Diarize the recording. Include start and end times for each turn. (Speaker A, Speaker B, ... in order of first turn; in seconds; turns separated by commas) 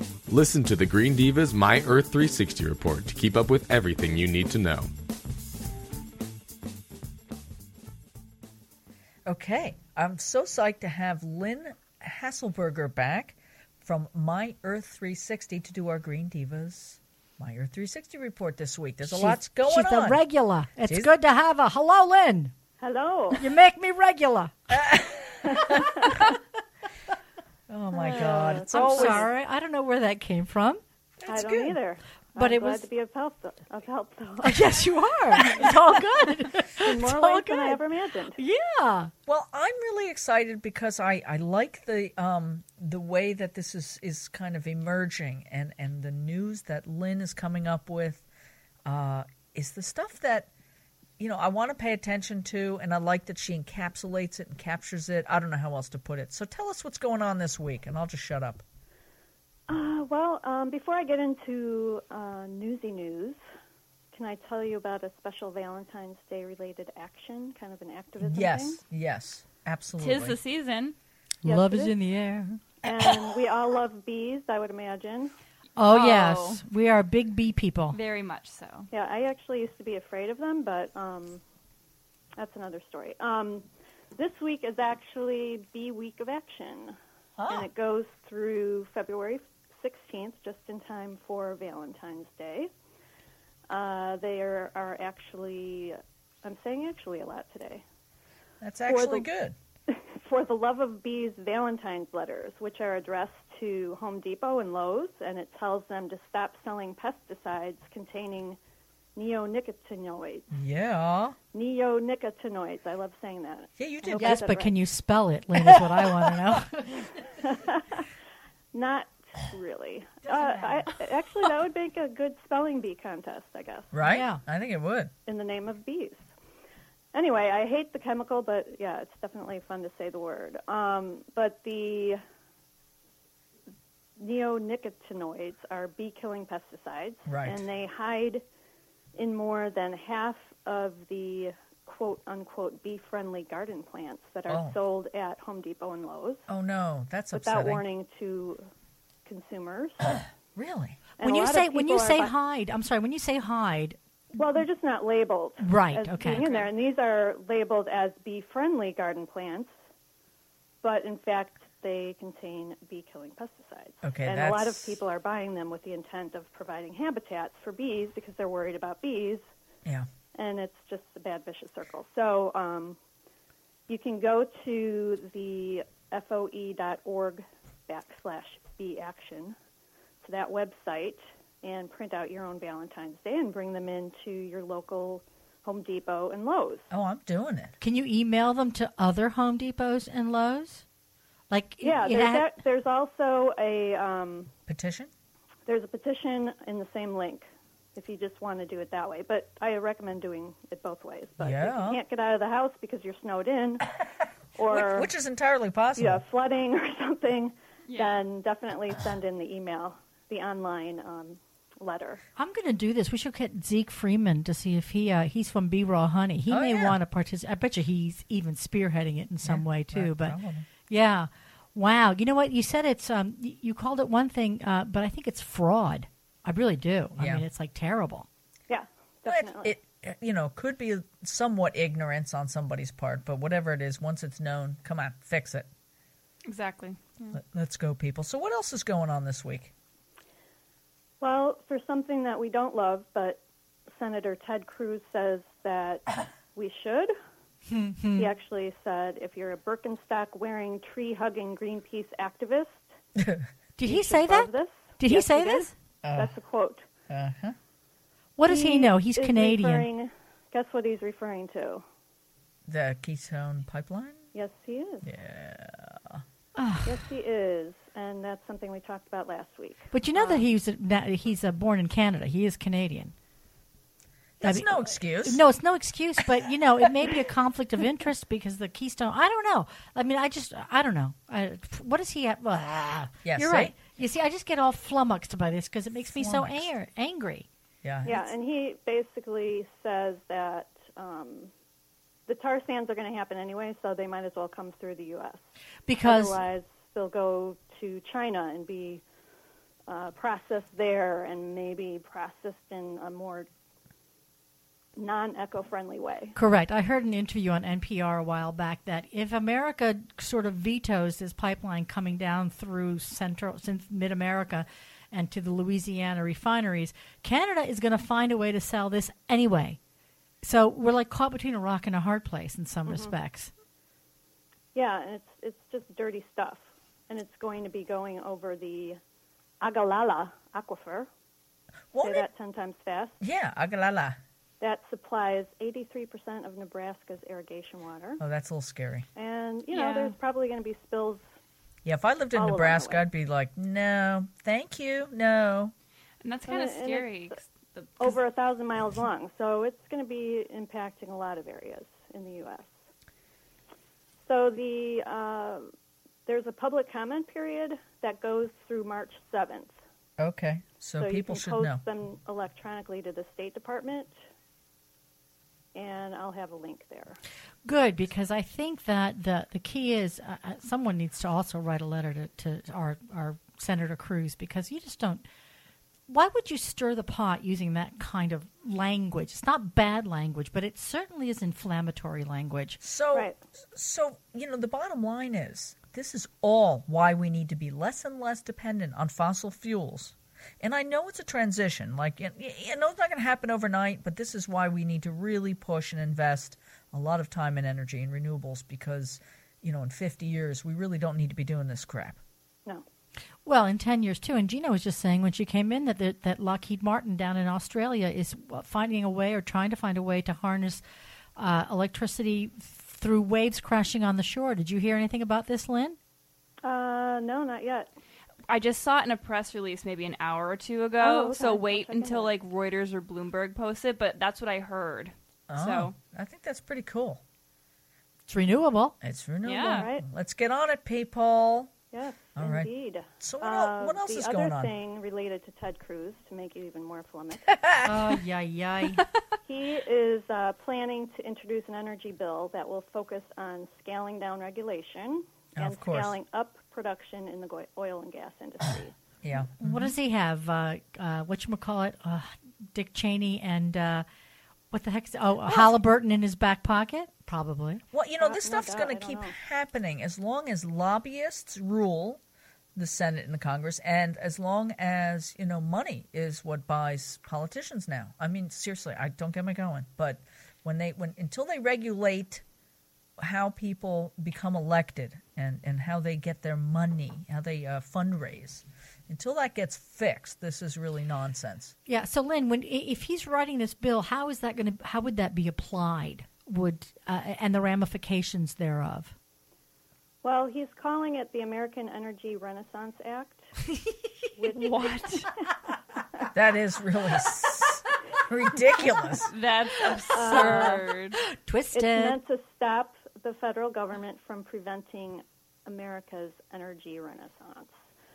Speaker A: 0.3-4.9, Speaker B: 9.2-20.2, Speaker C: 19.0-22.5, Speaker B: 20.8-21.1, Speaker D: 22.8-23.4, Speaker C: 23.3-24.8, Speaker B: 24.7-25.9, Speaker D: 25.5-26.3, Speaker B: 27.7-29.3, Speaker D: 27.9-29.3, Speaker C: 28.7-30.8, Speaker B: 31.2-31.8, Speaker D: 31.3-34.7, Speaker C: 32.4-32.8, Speaker C: 34.4-37.8, Speaker D: 36.8-38.4, Speaker C: 38.4-39.1, Speaker B: 39.3-48.2, Speaker B: 48.9-50.5, Speaker B: 51.2-58.6, Speaker D: 59.7-63.4, Speaker D: 64.1-68.8, Speaker B: 68.2-70.4, Speaker E: 70.0-71.0, Speaker C: 71.4-72.6, Speaker D: 71.4-72.0, Speaker D: 72.8-75.3, Speaker C: 75.8-78.0, Speaker E: 75.8-76.6, Speaker E: 77.9-78.9, Speaker D: 78.9-81.4, Speaker D: 82.4-87.0, Speaker B: 87.4-87.7, Speaker D: 87.5-92.7, Speaker D: 93.7-97.8, Speaker B: 98.6-99.5, Speaker D: 98.9-99.3, Speaker D: 99.9-108.6, Speaker D: 109.2-110.5, Speaker B: 110.5-111.4, Speaker D: 111.5-114.7, Speaker B: 113.8-114.4, Speaker C: 114.1-117.1, Speaker D: 117.4-118.0, Speaker D: 118.7-123.9, Speaker B: 123.9-125.1, Speaker C: 124.0-124.4, Speaker D: 125.2-126.2, Speaker D: 127.1-132.2, Speaker D: 134.2-138.4, Speaker B: 137.3-137.6, Speaker D: 139.1-146.4, Speaker B: 144.5-144.8, Speaker B: 146.5-147.8, Speaker D: 147.3-148.6, Speaker D: 149.2-150.2, Speaker B: 150.5-151.0, Speaker D: 151.2-152.3, Speaker C: 151.2-154.0, Speaker D: 154.3-159.7, Speaker C: 155.6-156.4, Speaker E: 156.4-156.7, Speaker D: 160.8-169.4, Speaker B: 164.0-164.9, Speaker D: 170.3-173.0, Speaker D: 173.9-179.5, Speaker D: 180.2-186.9, Speaker B: 186.9-187.7, Speaker C: 187.8-190.8, Speaker C: 191.5-192.5, Speaker D: 191.8-194.5, Speaker B: 194.7-195.1, Speaker D: 195.7-203.9, Speaker B: 201.4-202.0, Speaker D: 204.6-205.1, Speaker B: 204.7-206.2, Speaker D: 205.9-212.2, Speaker E: 207.9-208.2, Speaker C: 212.4-220.3, Speaker B: 216.5-217.0, Speaker B: 219.4-220.7, Speaker C: 220.9-228.2, Speaker B: 227.2-227.4, Speaker D: 228.7-229.7, Speaker B: 229.3-235.7, Speaker E: 236.5-237.3, Speaker B: 237.3-239.7, Speaker D: 241.2-243.4, Speaker D: 243.9-247.1, Speaker C: 247.7-248.3, Speaker D: 248.2-252.9, Speaker B: 253.2-253.4, Speaker C: 253.8-255.7, Speaker D: 253.8-256.9, Speaker B: 256.0-256.3, Speaker B: 257.1-257.5, Speaker C: 258.4-259.9, Speaker D: 258.5-261.8, Speaker B: 262.7-264.2, Speaker D: 264.3-265.1, Speaker B: 265.0-266.2, Speaker C: 266.6-266.9, Speaker D: 266.8-270.4, Speaker C: 269.9-273.1, Speaker B: 274.4-275.4, Speaker C: 274.4-287.5, Speaker B: 283.2-283.7, Speaker B: 286.1-286.7, Speaker B: 287.8-288.2, Speaker D: 288.1-291.5, Speaker D: 292.3-295.4, Speaker C: 295.9-296.4, Speaker D: 296.0-299.0, Speaker D: 299.9-303.5, Speaker D: 305.0-306.3, Speaker C: 306.3-319.8, Speaker C: 320.4-323.5, Speaker D: 322.9-323.1, Speaker D: 324.7-329.0, Speaker D: 329.6-331.1, Speaker B: 331.9-332.2, Speaker D: 332.0-333.2, Speaker B: 333.2-334.2, Speaker D: 334.6-338.2, Speaker B: 338.2-339.1, Speaker D: 339.1-341.2, Speaker E: 339.7-340.1, Speaker B: 341.8-345.7, Speaker D: 342.3-343.1, Speaker E: 346.2-348.2, Speaker D: 346.5-347.4, Speaker D: 348.0-352.7, Speaker D: 354.2-355.7, Speaker D: 356.2-359.7, Speaker B: 360.2-361.8, Speaker D: 361.0-364.1, Speaker D: 365.7-367.2, Speaker C: 367.6-375.2, Speaker C: 376.1-382.8, Speaker B: 382.8-402.2, Speaker D: 383.1-383.4, Speaker C: 403.4-410.8, Speaker C: 411.4-416.0, Speaker D: 416.6-417.9, Speaker E: 418.5-425.9, Speaker D: 421.0-422.3, Speaker B: 425.5-427.2, Speaker C: 428.3-428.9, Speaker B: 429.0-431.7, Speaker E: 429.4-429.9, Speaker D: 429.7-430.0, Speaker D: 431.9-437.5, Speaker B: 432.4-432.7, Speaker B: 433.2-434.7, Speaker C: 437.8-439.0, Speaker D: 439.5-448.9, Speaker B: 445.6-446.2, Speaker B: 449.2-449.9, Speaker C: 449.6-454.1, Speaker C: 454.7-457.8, Speaker B: 455.5-455.7, Speaker B: 457.9-462.2, Speaker D: 458.2-459.4, Speaker B: 462.8-472.4, Speaker B: 473.2-481.7, Speaker C: 481.9-489.1, Speaker D: 490.2-493.4, Speaker D: 494.4-495.3, Speaker E: 494.5-495.3, Speaker B: 496.3-499.3, Speaker E: 499.3-501.2, Speaker D: 500.1-500.8, Speaker C: 501.3-502.2, Speaker D: 501.7-507.7